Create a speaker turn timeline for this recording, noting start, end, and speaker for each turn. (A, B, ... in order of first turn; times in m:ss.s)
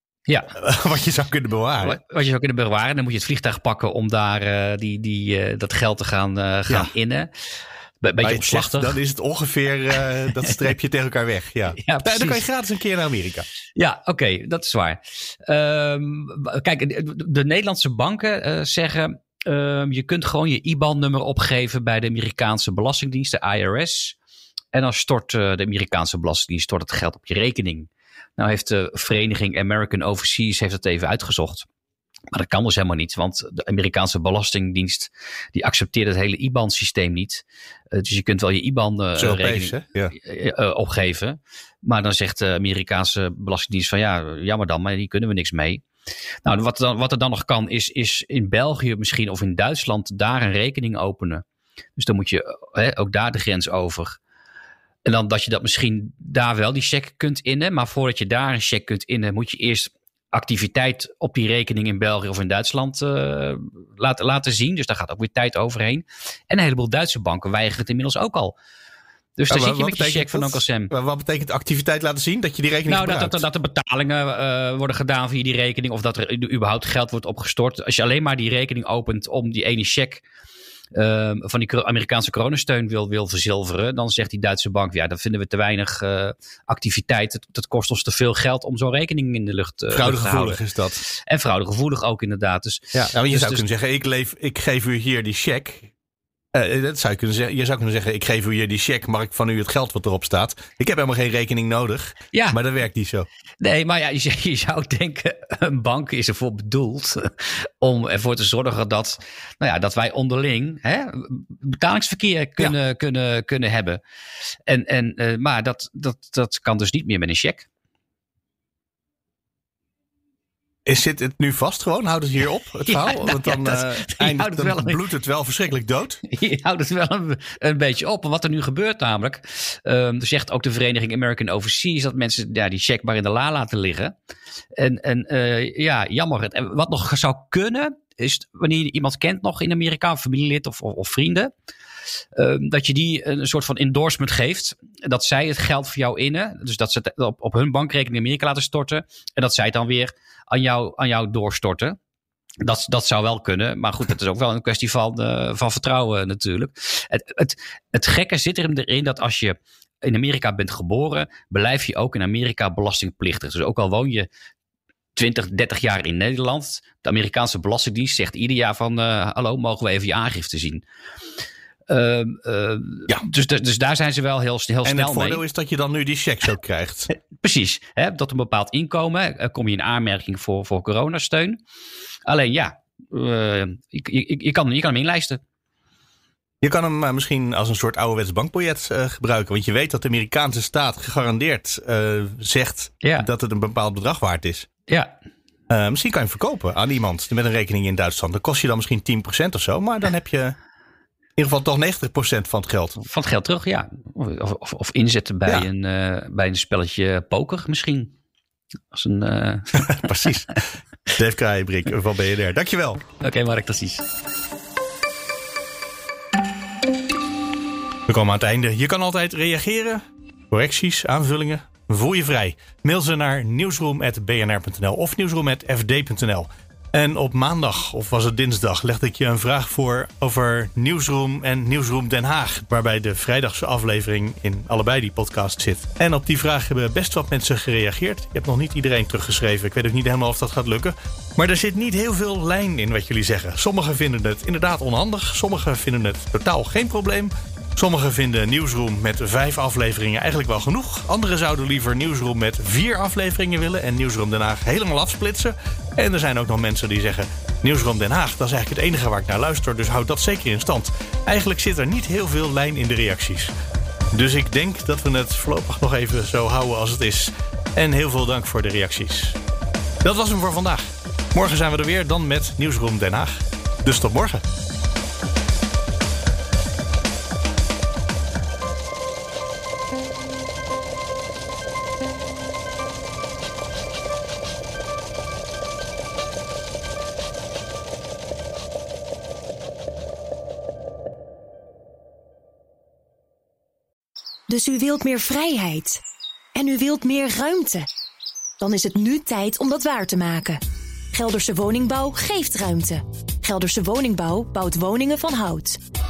0:00.3-0:00.5 A
0:00.6-0:02.0 B
0:01.8-0:07.3 A
0:08.0-0:09.0 A
0:08.2-0:13.5 B
0:11.8-0:12.4 A
0:13.8-0:24.2 A
0:24.7-0:31.7 A
0:32.3-0:45.8 A
0:39.2-0:40.2 B
0:46.4-0:51.4 A
0:52.0-0:54.2 A
0:55.0-1:08.6 A
1:09.4-1:10.9 A
1:09.5-1:13.4 B
1:12.9-1:20.2 A
1:20.9-1:33.6 A
1:29.9-1:31.0 B
1:33.0-1:35.9 B
1:36.5-1:43.3 B
1:42.3-1:42.6 A
1:43.6-1:54.0 A
1:54.7-1:57.7 A
2:00.9-2:06.2 B
2:02.9-2:05.0 A
2:06.2-2:14.1 A
2:14.8-2:21.5 A
2:22.4-2:32.0 A
2:32.6-2:44.3 A
2:45.2-2:50.8 A
2:51.9-2:55.4 A
2:54.8-2:57.1 B
2:57.3-3:01.6 A
3:02.3-3:05.4 A
3:06.6-3:14.7 B
3:13.0-3:13.3 A
3:14.9-3:15.1 A
3:15.7-3:20.6 B
3:21.4-3:23.0 B
3:23.0-3:28.1 A
3:28.9-3:30.4 A
3:29.8-3:30.6 B
3:31.1-3:33.1 B
3:33.2-3:34.0 A
3:38.1-4:23.5 B
4:24.1-4:29.4 B
4:30.0-4:34.4 B
4:54.5-4:56.0 C
4:56.6-4:57.9 C
4:58.6-5:00.6 C
5:01.1-5:05.8 C